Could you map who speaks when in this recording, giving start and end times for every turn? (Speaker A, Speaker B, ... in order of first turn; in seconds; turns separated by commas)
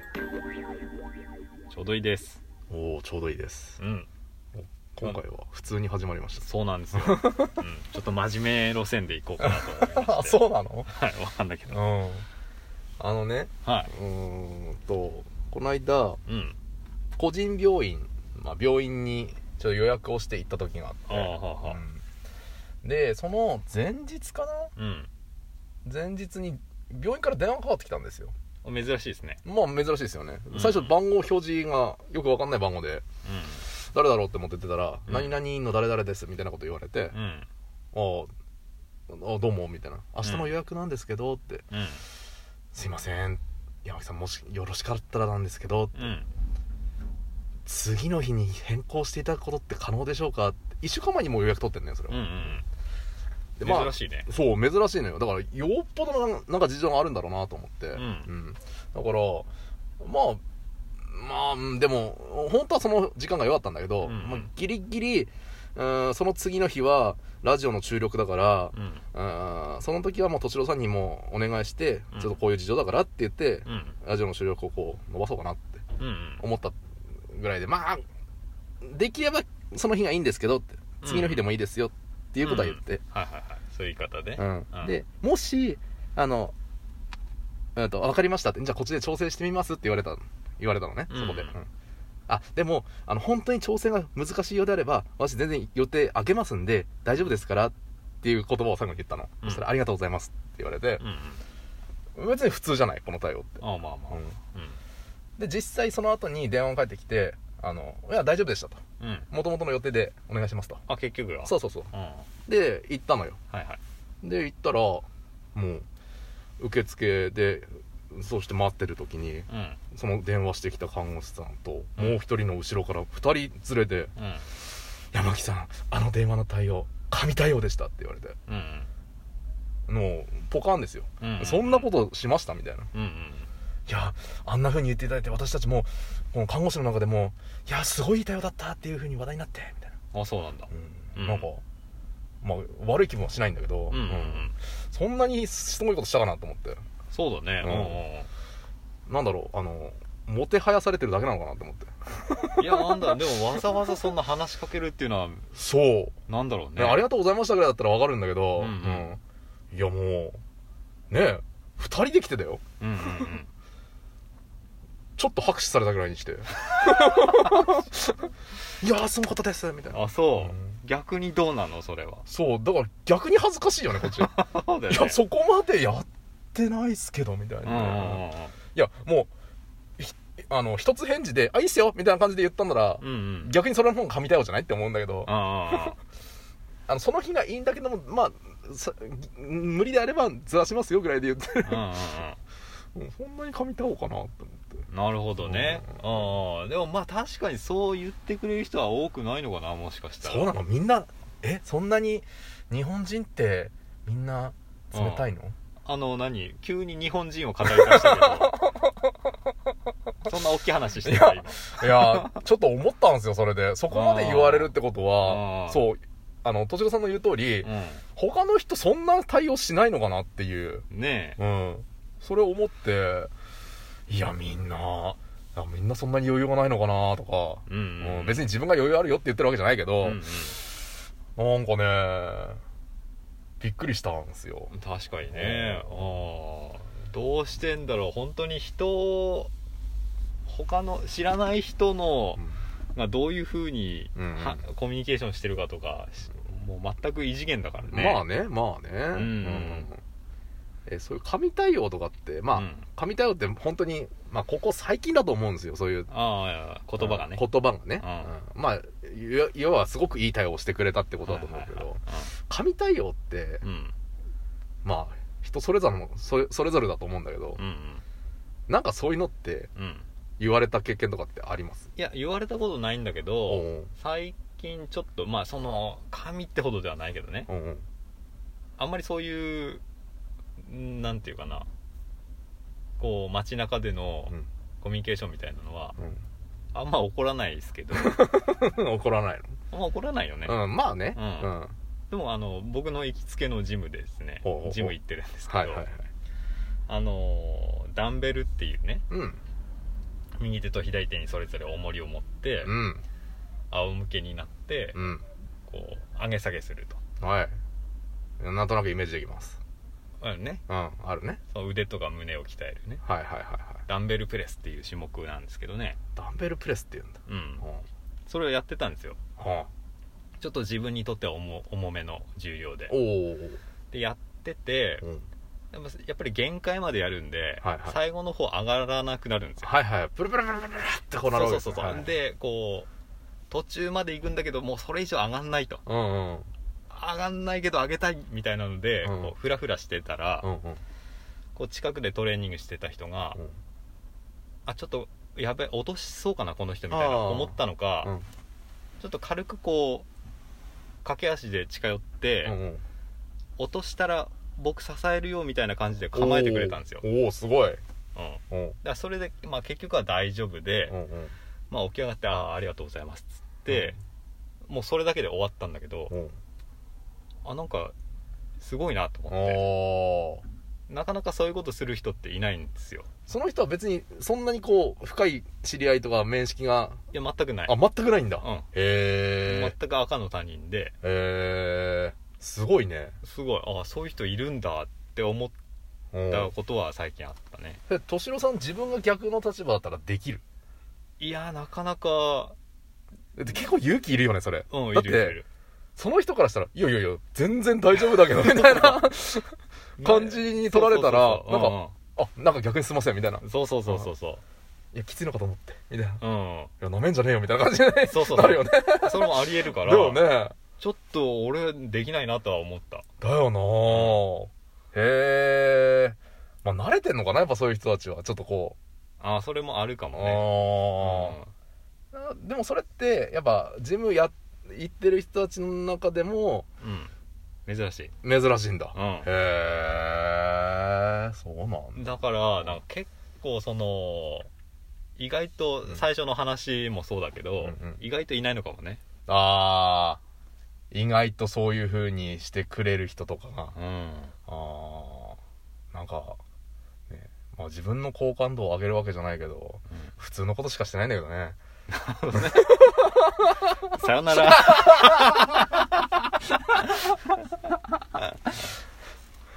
Speaker A: 1.7-2.4, Speaker B: 2.7-3.8, Speaker A: 3.8-4.1, Speaker B: 4.5-7.5, Speaker A: 6.4-11.8, Speaker B: 9.4-10.9, Speaker B: 11.7-12.3, Speaker B: 13.0-16.2, Speaker A: 13.6-13.9, Speaker A: 16.3-16.6, Speaker B: 17.2-22.0, Speaker A: 21.1-21.8, Speaker B: 22.8-24.7, Speaker A: 24.8-25.1, Speaker B: 25.8-28.3, Speaker A: 28.6-29.4, Speaker B: 29.4-33.0, Speaker A: 30.5-30.9, Speaker A: 33.2-33.6, Speaker B: 33.7-37.1, Speaker A: 35.1-35.3, Speaker A: 37.1-37.5, Speaker B: 37.9-38.3, Speaker B: 39.1-41.6, Speaker A: 40.2-40.5, Speaker A: 41.7-42.0, Speaker B: 42.7-46.2, Speaker A: 45.9-46.3, Speaker B: 47.6-52.6, Speaker A: 52.1-52.6, Speaker B: 53.6-59.5, Speaker A: 53.6-54.3, Speaker A: 57.9-58.3, Speaker B: 60.0-60.4, Speaker B: 61.0-75.8, Speaker A: 64.0-64.5, Speaker A: 68.7-69.0, Speaker A: 73.7-74.0, Speaker A: 76.0-76.4, Speaker B: 76.4-76.8, Speaker B: 77.3-78.0, Speaker B: 78.8-83.0, Speaker A: 81.0-81.4, Speaker A: 82.4-84.9, Speaker B: 84.4-86.5, Speaker B: 87.8-91.7, Speaker A: 91.1-91.6, Speaker B: 92.3-101.0, Speaker A: 101.0-101.4, Speaker B: 102.1-104.3, Speaker A: 103.6-104.8, Speaker B: 105.4-108.8, Speaker A: 109.0-109.3, Speaker B: 109.3-110.8, Speaker A: 110.9-112.3, Speaker B: 111.4-111.9, Speaker B: 112.5-113.4, Speaker A: 113.5-113.8, Speaker B: 114.2-115.8, Speaker B: 116.6-124.6, Speaker A: 119.5-119.8, Speaker A: 124.2-124.5, Speaker B: 125.1-128.3, Speaker A: 128.5-128.9, Speaker B: 129.9-132.9, Speaker A: 131.2-131.9, Speaker A: 132.9-133.5, Speaker B: 133.9-139.9, Speaker A: 140.1-141.4, Speaker B: 140.7-141.6, Speaker B: 142.4-146.8, Speaker A: 143.9-144.5, Speaker A: 147.1-148.3, Speaker B: 147.6-148.0, Speaker B: 149.1-153.7, Speaker A: 152.6-155.5, Speaker B: 155.5-156.2, Speaker A: 156.3-157.1, Speaker B: 156.8-159.2, Speaker A: 158.6-159.1, Speaker B: 159.7-160.4, Speaker B: 161.1-162.6, Speaker A: 162.8-163.5, Speaker B: 165.2-168.2, Speaker A: 167.1-167.7, Speaker B: 168.8-170.7, Speaker A: 169.9-172.2, Speaker B: 172.2-174.3, Speaker A: 174.0-175.2, Speaker B: 174.9-179.3, Speaker A: 177.6-178.5, Speaker B: 180.0-186.0, Speaker A: 183.0-183.5, Speaker A: 185.2-186.0, Speaker B: 186.9-192.0, Speaker A: 191.6-192.4, Speaker B: 192.9-194.8, Speaker A: 194.9-200.5, Speaker B: 195.4-196.3, Speaker B: 200.2-205.6, Speaker A: 204.9-205.2, Speaker A: 205.8-208.6, Speaker B: 207.6-209.1, Speaker A: 210.2-212.4, Speaker B: 211.0-220.8, Speaker A: 213.9-215.9, Speaker A: 217.6-218.0, Speaker A: 220.9-221.4, Speaker B: 221.4-223.3, Speaker B: 224.1-230.7, Speaker A: 227.7-228.5, Speaker A: 230.0-230.6, Speaker B: 231.3-232.6, Speaker B: 233.6-234.7, Speaker A: 234.7-239.5, Speaker B: 235.3-236.1, Speaker A: 240.4-248.2, Speaker B: 244.1-244.6, Speaker B: 247.9-250.0, Speaker A: 249.1-249.9, Speaker B: 250.9-256.1, Speaker A: 252.5-252.8, Speaker A: 256.1-257.5, Speaker B: 257.0-263.6, Speaker A: 258.0-258.3, Speaker A: 261.2-262.3, Speaker A: 263.6-263.9, Speaker B: 264.8-267.6, Speaker A: 267.6-268.0, Speaker B: 268.7-269.7, Speaker A: 269.8-270.0, Speaker B: 270.4-271.9, Speaker A: 271.9-277.5, Speaker B: 273.4-273.9, Speaker B: 277.5-277.8, Speaker A: 278.8-279.8, Speaker A: 280.6-281.7, Speaker A: 283.0-285.9, Speaker A: 286.7-288.2, Speaker B: 287.9-289.5, Speaker A: 289.7-290.6, Speaker B: 290.4-291.7, Speaker A: 291.1-291.5, Speaker A: 292.1-295.8, Speaker B: 294.4-294.9, Speaker B: 295.5-296.0, Speaker A: 296.9-299.0, Speaker B: 299.1-299.4, Speaker A: 300.4-302.7, Speaker B: 302.6-303.0, Speaker A: 303.7-305.0, Speaker B: 304.9-305.2, Speaker A: 305.7-307.0, Speaker B: 307.2-307.5, Speaker B: 308.4-309.6, Speaker A: 310.2-310.6, Speaker B: 310.7-311.4, Speaker A: 311.5-313.0, Speaker B: 313.0-313.8, Speaker A: 313.9-316.0, Speaker B: 316.1-317.9, Speaker A: 317.3-317.6, Speaker A: 318.3-319.2, Speaker B: 319.4-319.7, Speaker A: 320.4-323.0, Speaker B: 322.9-323.6, Speaker A: 323.9-325.0, Speaker A: 325.7-329.7, Speaker B: 327.6-328.0, Speaker B: 329.6-332.1, Speaker A: 331.3-332.9, Speaker A: 333.5-335.8, Speaker B: 335.9-336.5, Speaker A: 336.9-340.5, Speaker B: 339.0-339.3, Speaker B: 340.4-340.8, Speaker A: 341.5-343.4, Speaker A: 344.6-348.1, Speaker B: 346.9-348.3, Speaker A: 349.0-350.1, Speaker A: 351.0-352.6, Speaker B: 352.4-352.8, Speaker A: 353.6-357.0, Speaker B: 356.1-357.8, Speaker A: 358.1-361.0, Speaker B: 358.5-358.8, Speaker B: 360.9-361.3, Speaker A: 361.7-364.0, Speaker B: 363.7-363.9, Speaker A: 364.6-366.1, Speaker A: 367.4-367.9, Speaker A: 368.6-369.7, Speaker B: 369.3-370.4, Speaker A: 370.9-373.1, Speaker B: 373.3-377.0, Speaker A: 377.1-377.8, Speaker B: 377.6-379.7, Speaker A: 378.4-378.7, Speaker A: 379.4-380.9, Speaker B: 381.0-383.2, Speaker A: 383.2-385.6, Speaker B: 386.1-386.5, Speaker A: 386.3-387.8, Speaker B: 387.9-390.4, Speaker A: 391.2-392.6, Speaker B: 393.4-395.4, Speaker A: 394.7-395.4, Speaker B: 395.9-404.1, Speaker A: 398.2-399.1, Speaker A: 400.0-401.9, Speaker A: 403.4-404.4, Speaker B: 404.9-406.2, Speaker A: 406.2-406.7, Speaker B: 406.8-410.5, Speaker A: 408.0-413.0, Speaker B: 413.2-418.8, Speaker A: 413.8-414.2, Speaker A: 419.2-421.5, Speaker B: 420.1-421.4, Speaker B: 422.1-426.7, Speaker A: 426.8-427.1, Speaker A: 427.7-428.1, Speaker B: 428.2-432.8, Speaker A: 428.9-429.3, Speaker A: 431.9-434.5, Speaker A: 435.2-439.0, Speaker B: 437.6-438.0, Speaker B: 439.3-440.2, Speaker B: 440.9-443.8, Speaker A: 443.7-444.3, Speaker B: 444.5-445.4, Speaker B: 445.9-446.4, Speaker B: 447.1-451.6, Speaker A: 451.9-452.8, Speaker B: 452.3-455.4, Speaker A: 453.9-455.9